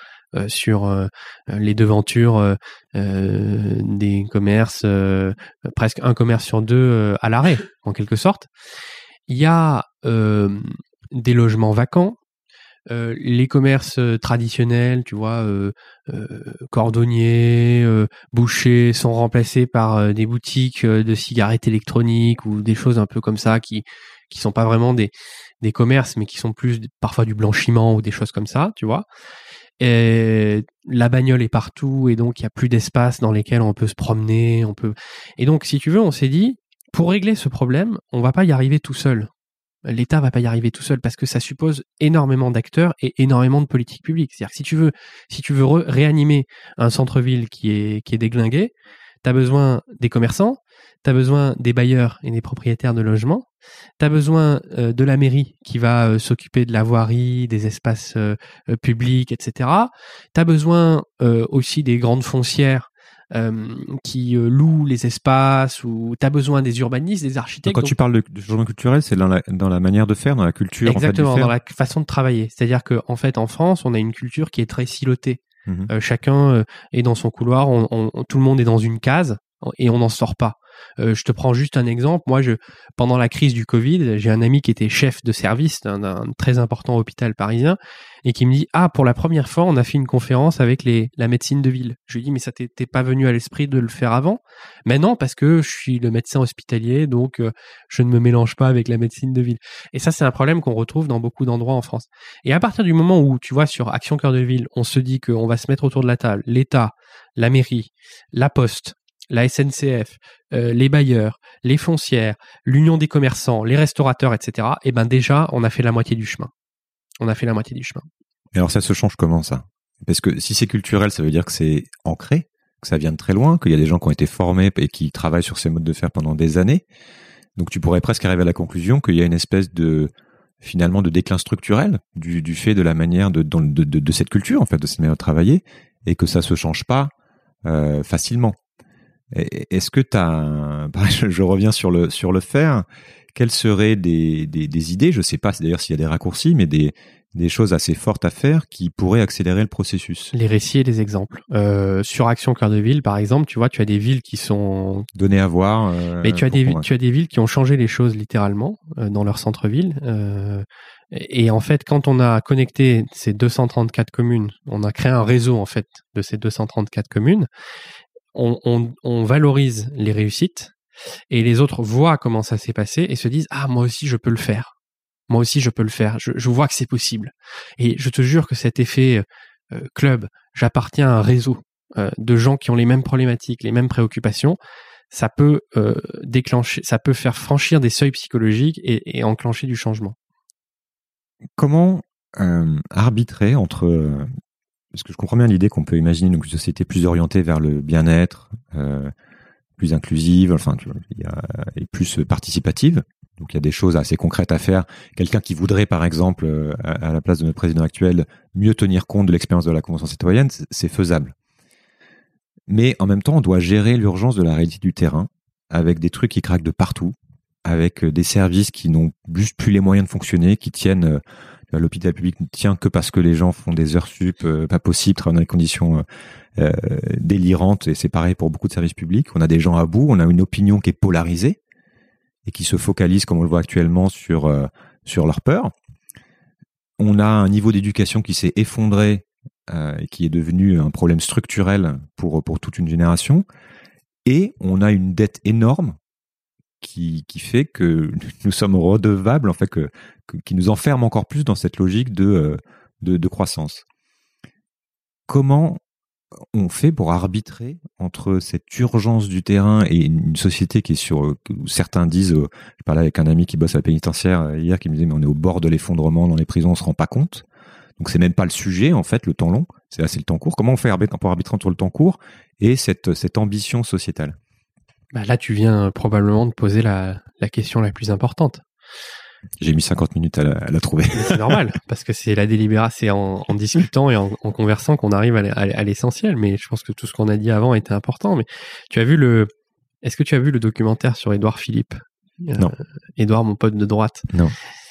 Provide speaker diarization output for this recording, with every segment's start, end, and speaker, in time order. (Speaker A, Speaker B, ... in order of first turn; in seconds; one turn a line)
Speaker A: 0.3-8.5
Speaker A: 9.3-12.2
Speaker A: 12.9-29.1
Speaker A: 29.8-39.3
Speaker A: 39.9-48.7
Speaker A: 49.2-53.5
Speaker A: 54.0-67.9
Speaker B: 67.7-71.5
Speaker A: 70.8-116.5
Speaker A: 117.2-118.0
Speaker B: 118.5-126.8
Speaker B: 127.6-137.1
Speaker B: 137.7-138.6
Speaker B: 139.3-150.3
Speaker A: 150.3-155.1
Speaker B: 155.2-156.9
Speaker A: 156.2-167.5
Speaker A: 168.3-170.7
Speaker A: 171.3-174.7
Speaker A: 175.3-184.6
Speaker A: 185.1-190.2
Speaker B: 191.6-194.3
Speaker B: 194.9-199.1
Speaker B: 199.8-211.3
Speaker B: 212.7-226.1
Speaker B: 226.6-231.6
Speaker B: 232.5-235.7
Speaker B: 237.0-243.4
Speaker B: 244.3-246.0
Speaker B: 246.8-253.8
Speaker B: 255.3-255.8
Speaker B: 256.5-267.4
Speaker B: 268.0-274.4
Speaker A: 275.1-278.6
Speaker B: 279.6-281.6
Speaker A: 281.1-289.5
Speaker A: 290.0-294.3